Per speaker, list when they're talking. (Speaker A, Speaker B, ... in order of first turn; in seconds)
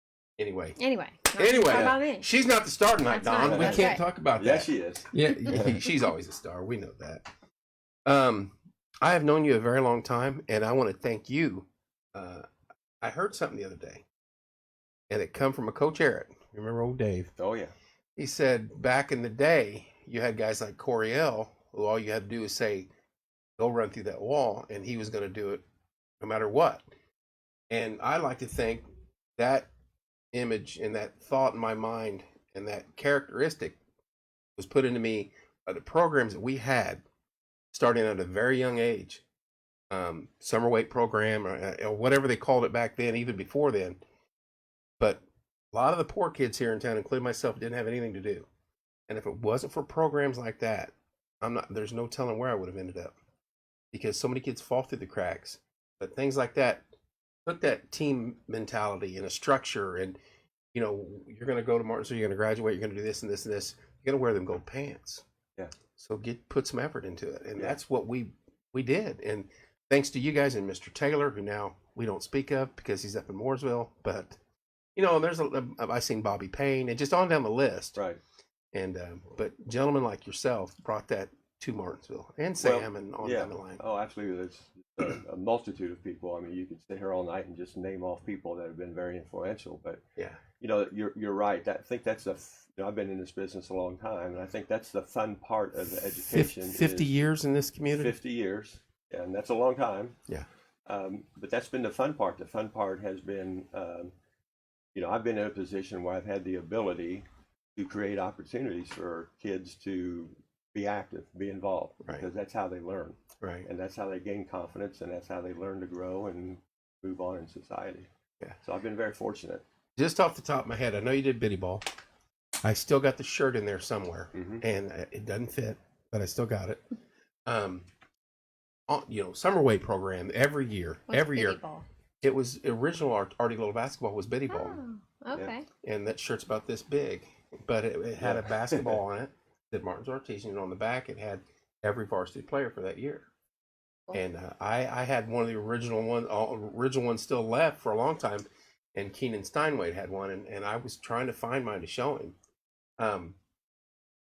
Speaker A: 0.4-0.8, 1.3-7.3, 8.1-12.5, 13.0-14.1, 15.1-17.3, 18.2-22.9, 23.6-25.6, 26.2-26.8, 27.7-28.9, 29.4-29.7, 30.3-33.8, 34.6-37.0, 37.7-39.2, 39.9-44.0, 45.0-48.5, 49.1-53.1, 53.9-56.8, 57.5-60.2, 60.7-65.2, 66.0-74.4, 75.0-78.0, 78.7-83.8, 90.2-90.4, 96.2-98.2, 113.4-113.7, 120.0-121.8, 122.6-126.8, 127.5-127.9, 128.9-131.6, 132.2-134.8, 135.8-143.3, 144.1-152.4, 153.0-153.4
Speaker B: 0.8-2.3, 3.1-4.0, 131.1-131.8, 134.5-135.7
Speaker C: 1.7-2.0, 3.4-5.9, 17.4-17.7, 82.6-90.0, 90.6-97.1, 97.9-100.2, 100.9-104.1, 105.0-118.1, 118.6-119.6, 124.3-124.6, 138.2-139.0